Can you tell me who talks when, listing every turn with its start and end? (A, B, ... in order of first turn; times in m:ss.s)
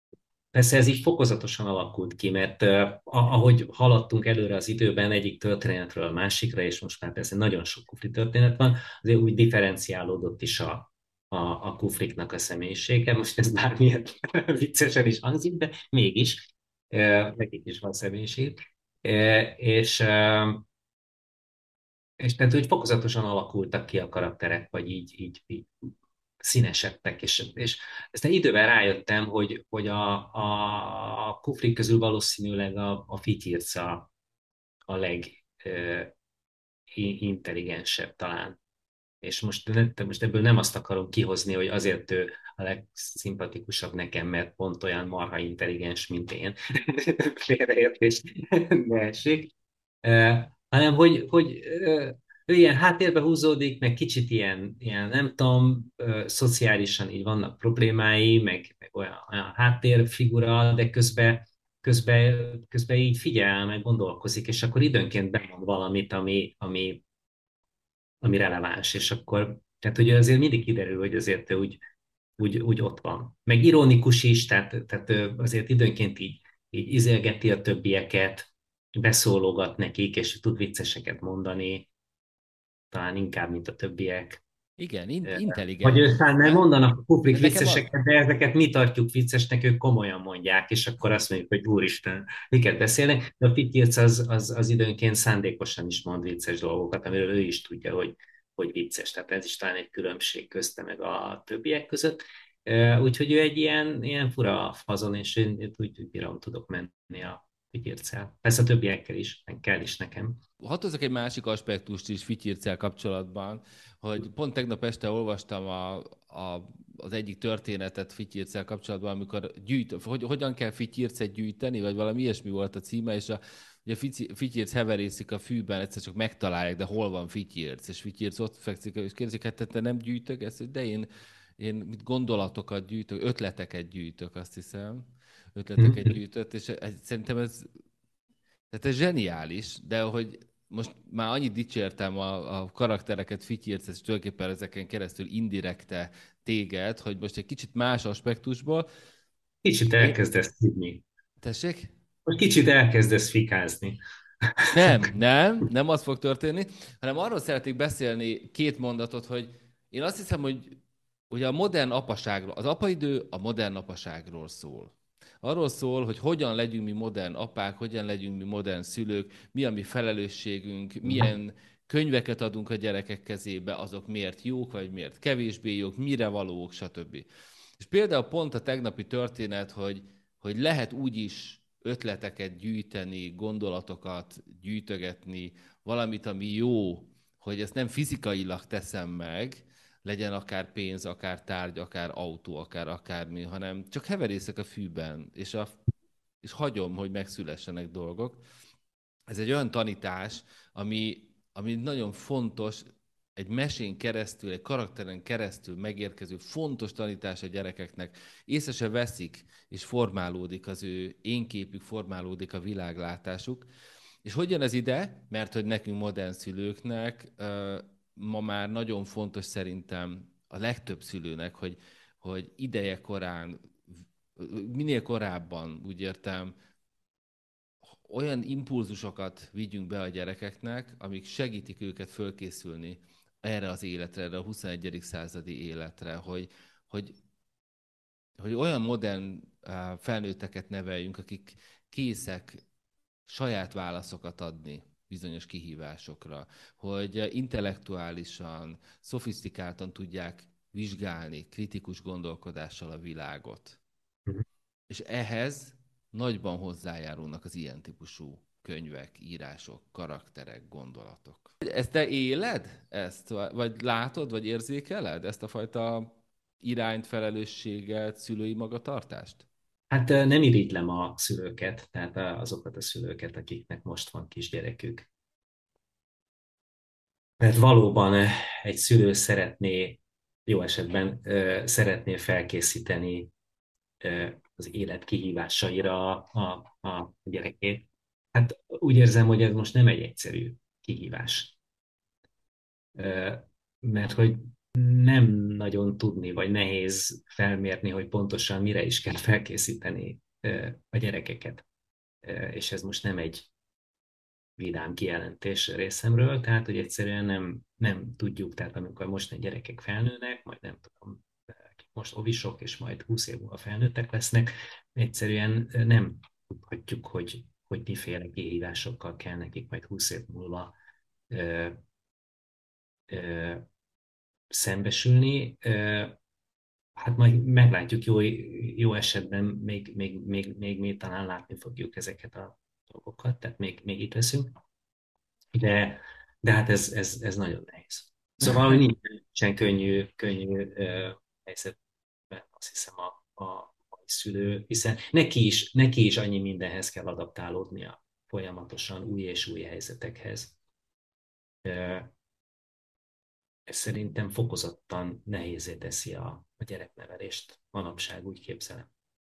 0:00.5-0:20.6 A
0:22.2-0:25.7 A
0:26.4-0:34.1 A
0:34.9-0:36.1 A
0:36.9-0:38.6 A
0:39.2-0:49.5 A
0:50.0-1:07.0 A
1:08.2-1:11.8 A
1:12.4-1:21.9 A
1:22.9-1:24.4 A
1:24.8-1:26.6 B
1:25.2-1:50.4 A
1:27.3-1:27.9 B
1:50.6-2:17.7 B
2:15.8-2:16.2 A
2:18.7-2:28.9 B
2:29.6-2:31.0 A
2:31.4-2:31.9 B
2:32.2-2:34.0 A
2:34.6-2:35.1 A
2:34.7-2:57.2 B
2:51.0-2:51.3 A
2:57.8-3:15.8 B
3:16.4-3:18.4 B
3:19.3-3:22.8 B
3:23.4-3:33.7 B
3:34.2-3:43.8 B
3:44.4-3:46.5 B
3:48.0-3:57.1 B
3:58.4-4:02.6 B
4:03.3-4:13.8 B
4:14.9-4:29.4 B
4:29.9-4:35.1 A
4:37.4-4:43.3 A
4:44.0-4:51.6 A
4:53.0-5:01.6 A
5:02.2-5:03.5 A
5:04.6-5:20.7 A
5:21.3-5:21.8 A
5:23.1-5:23.6 A
5:24.5-5:26.2 A
5:27.0-5:34.5 A
5:35.5-5:41.8 A
5:42.3-5:50.5 A
5:51.6-5:52.1 A
5:53.7-5:58.9 A